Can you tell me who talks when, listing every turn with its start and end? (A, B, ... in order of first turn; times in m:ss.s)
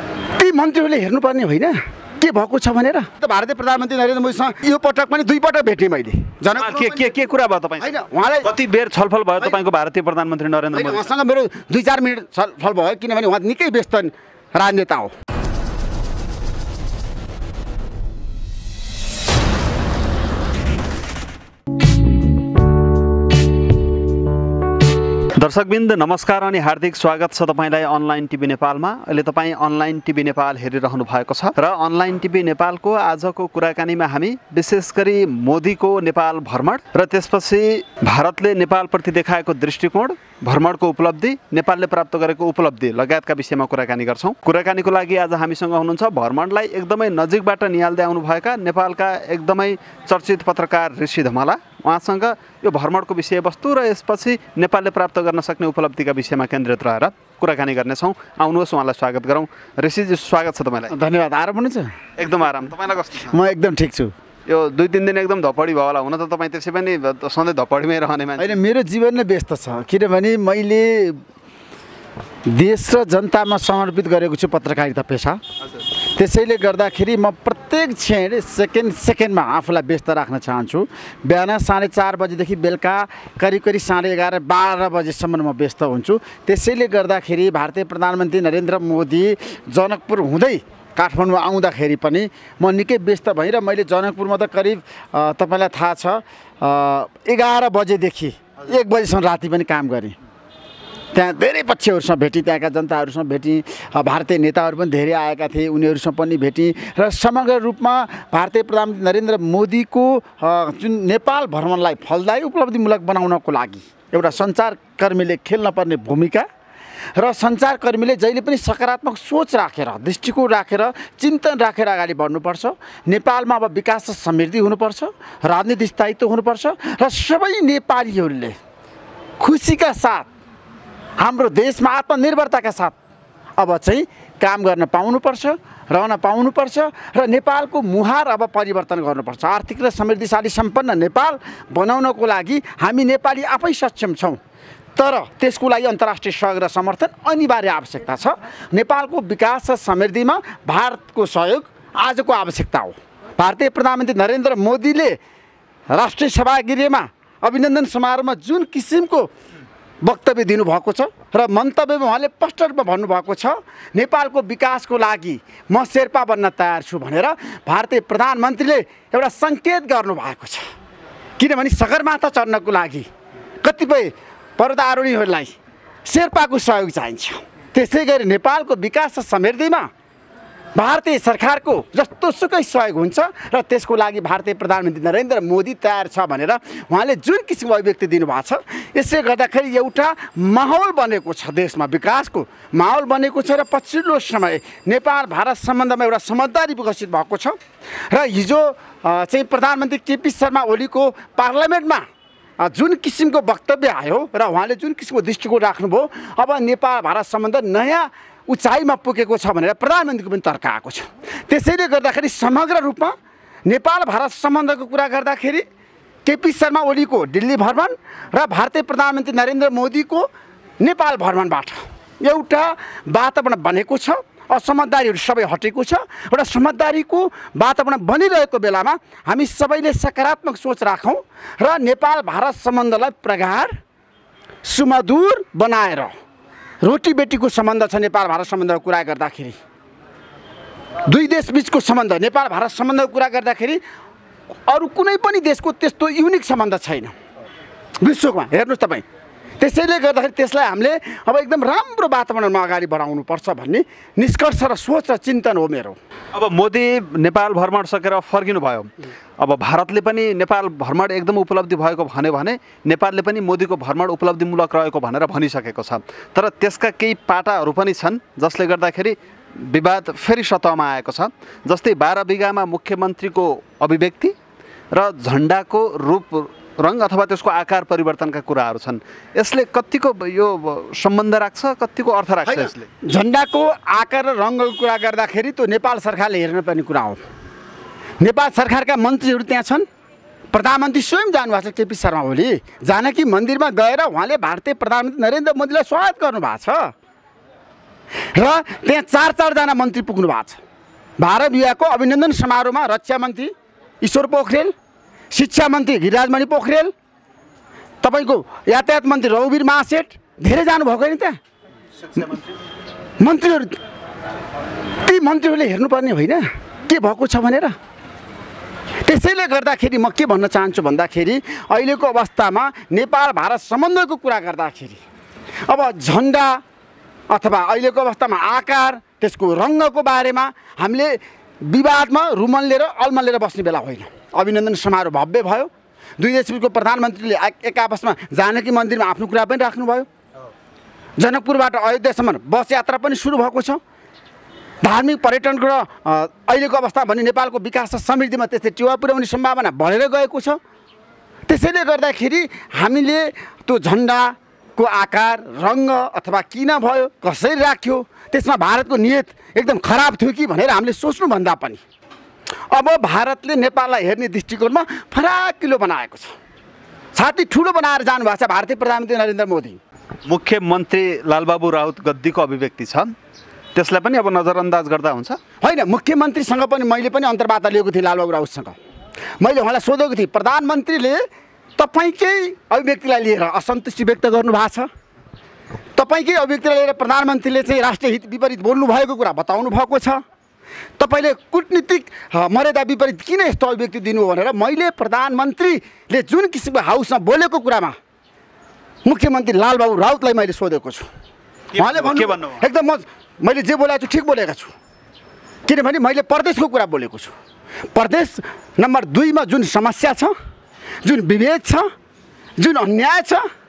0:00.3-0:07.1 A
0:06.6-0:07.9 B
0:07.8-0:08.5 A
0:08.4-0:11.0 B
0:10.7-0:15.1 A
0:25.3-1:00.9 B
1:00.9-1:02.0 A
1:02.2-1:03.4 B
1:03.3-1:04.1 A
1:04.5-1:08.6 B
1:08.4-1:11.2 A
1:12.5-1:15.4 A
1:16.1-1:40.1 A
1:41.1-1:56.5 A
1:57.2-2:08.5 A
2:09.4-2:10.3 A
2:11.2-2:13.0 A
2:13.6-2:24.4 A
2:24.9-2:35.2 A
2:35.9-2:39.3 A
2:40.0-2:50.6 A
2:51.4-2:53.1 A
2:53.6-2:59.9 A
3:00.8-3:17.6 A
3:18.1-3:22.0 A
3:22.6-3:33.1 A
3:33.6-3:35.6 A
3:36.2-3:40.3 A
3:40.8-3:53.7 A
3:54.6-3:56.1 A
3:56.8-3:59.6 A
4:01.0-4:03.8 A
4:04.7-4:07.1 A
4:08.0-4:09.0 A
4:09.6-4:16.0 A
4:16.3-4:34.3 B
4:34.9-4:42.9 B
4:42.5-4:47.2 A
4:48.2-4:49.8 A
4:50.5-4:56.9 A
4:58.3-5:00.6 A
5:01.2-5:04.7 A
5:05.3-5:06.9 A
5:08.0-5:11.4 A
5:13.2-5:13.8 A
5:15.0-5:17.7 A
5:19.0-5:25.0 A
5:25.7-5:26.6 A
5:27.3-5:40.1 A
5:41.2-5:43.8 A
5:44.8-5:50.6 A
5:51.5-6:01.8 A
6:02.7-6:06.3 A
6:07.1-6:09.8 A
6:10.2-6:13.1 B
6:13.7-6:15.4 B
6:15.6-6:18.8 A
6:19.4-6:21.2 A
6:21.8-6:24.9 A
6:26.0-6:30.2 A
6:31.0-6:38.0 A
6:39.0-6:41.1 A
6:41.7-6:42.6 B
6:41.8-6:44.7 A
6:45.6-6:47.3 A
6:47.9-6:50.3 A
6:51.0-6:51.8 A
6:52.6-6:53.4 A